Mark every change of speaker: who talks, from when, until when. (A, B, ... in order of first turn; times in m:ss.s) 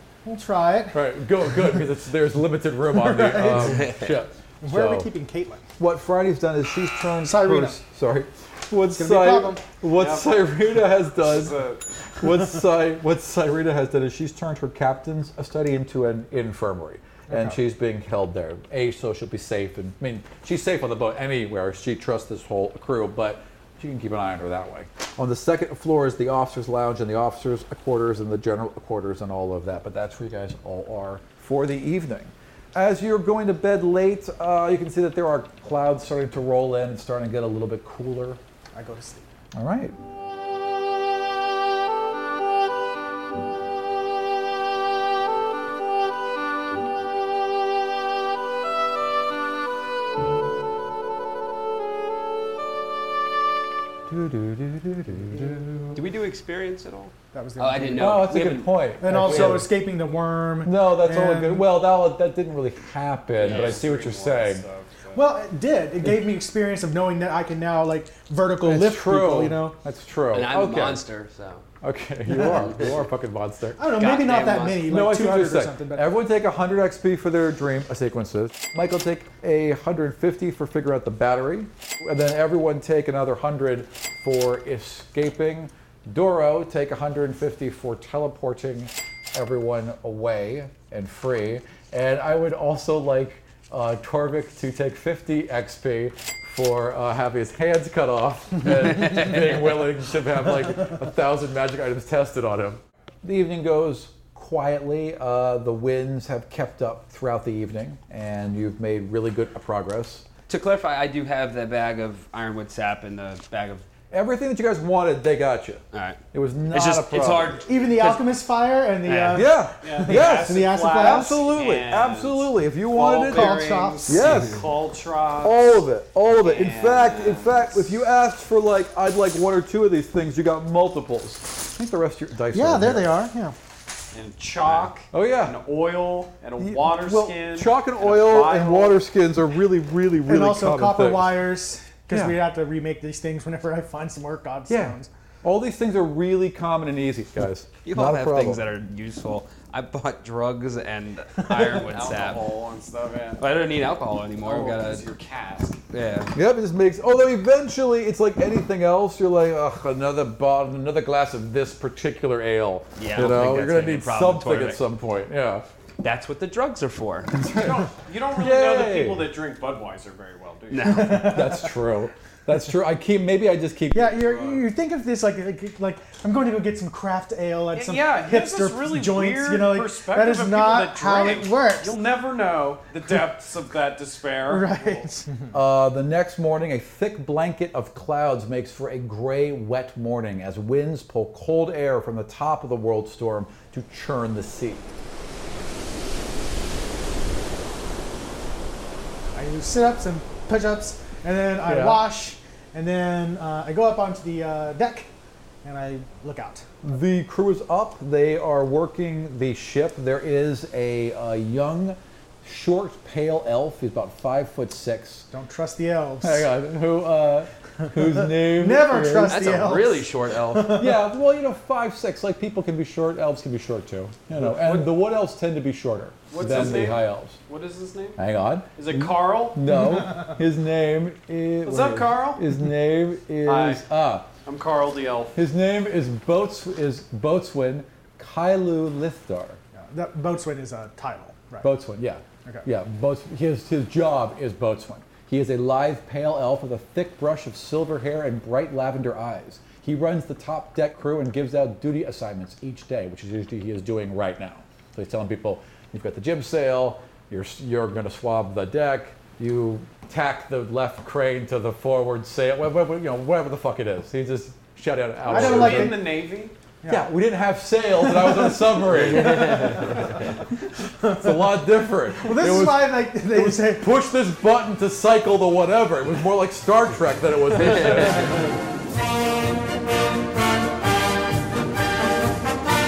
0:00.2-0:01.0 A
0:00.9-0:05.1 B
0:02.9-0:03.9 A
0:04.6-0:05.6 A
0:05.8-0:11.6 B
0:07.2-0:07.8 A
0:08.9-0:09.6 A
0:09.9-0:11.8 C
0:12.2-0:38.4 B
0:17.3-0:17.6 A
0:38.7-0:39.3 A
0:39.5-0:40.0 B
0:54.1-0:56.0 B
0:55.9-0:59.6 D
0:57.3-0:58.3 A
0:57.9-0:59.7 B
0:59.0-1:01.7 A
1:00.6-1:04.6 B
1:03.4-1:05.2 C
1:03.4-1:03.8 D
1:05.1-1:09.8 A
1:08.6-1:11.0 B
1:10.3-1:11.6 D
1:11.8-1:13.8 B
1:12.4-1:12.7 D
1:13.8-1:16.2 A
1:13.9-1:14.9 D
1:14.9-1:50.2 B
1:50.5-1:53.8 D
1:54.1-1:57.6 B
1:55.9-1:58.3 D
1:57.6-2:01.4 A
1:59.0-1:59.5 D
1:59.3-2:04.6 B
1:59.8-2:05.6 C
2:03.3-2:04.3 A
2:05.4-2:13.2 B
2:06.4-2:07.8 C
2:12.5-2:13.6 A
2:14.1-2:19.0 C
2:15.1-2:15.6 B
2:16.6-2:21.4 B
2:20.3-2:25.1 A
2:22.1-2:22.4 B
2:24.7-2:28.6 B
2:27.8-2:32.4 D
2:31.5-2:33.5 C
2:33.4-2:35.1 D
2:34.4-2:35.8 C
2:35.9-2:36.3 D
2:36.3-2:45.7 B
2:43.0-2:44.8 D
2:46.0-2:47.4 D
2:47.4-2:49.3 B
2:47.5-2:51.1 C
2:50.7-2:51.5 D
2:50.8-2:51.7 A
2:51.1-2:54.2 B
2:53.9-3:02.0 A
2:54.2-2:54.6 C
2:57.7-3:05.0 C
3:04.5-3:05.3 A
3:05.5-3:14.9 B
3:19.3-3:25.1 A
3:21.6-3:22.0 B
3:25.6-3:26.7 A
3:26.8-3:35.3 B
3:35.3-3:36.5 A
3:36.2-3:39.5 B
3:38.1-3:41.0 A
3:39.2-3:40.9 D
3:40.6-3:47.4 B
3:44.4-3:44.9 C
3:46.3-3:48.2 C
3:48.2-3:54.3 B
3:48.8-3:49.7 C
3:51.6-3:52.4 C
3:53.4-3:55.4 C
3:55.3-3:59.6 B
3:59.7-4:01.7 A
4:01.6-4:26.1 B
4:25.2-4:26.5 C
4:25.3-4:26.2 A
4:26.8-4:27.1 A
4:26.9-4:30.2 B
4:28.0-4:30.0 A
4:29.0-4:30.2 D
4:31.0-4:33.9 A
4:31.0-4:38.5 B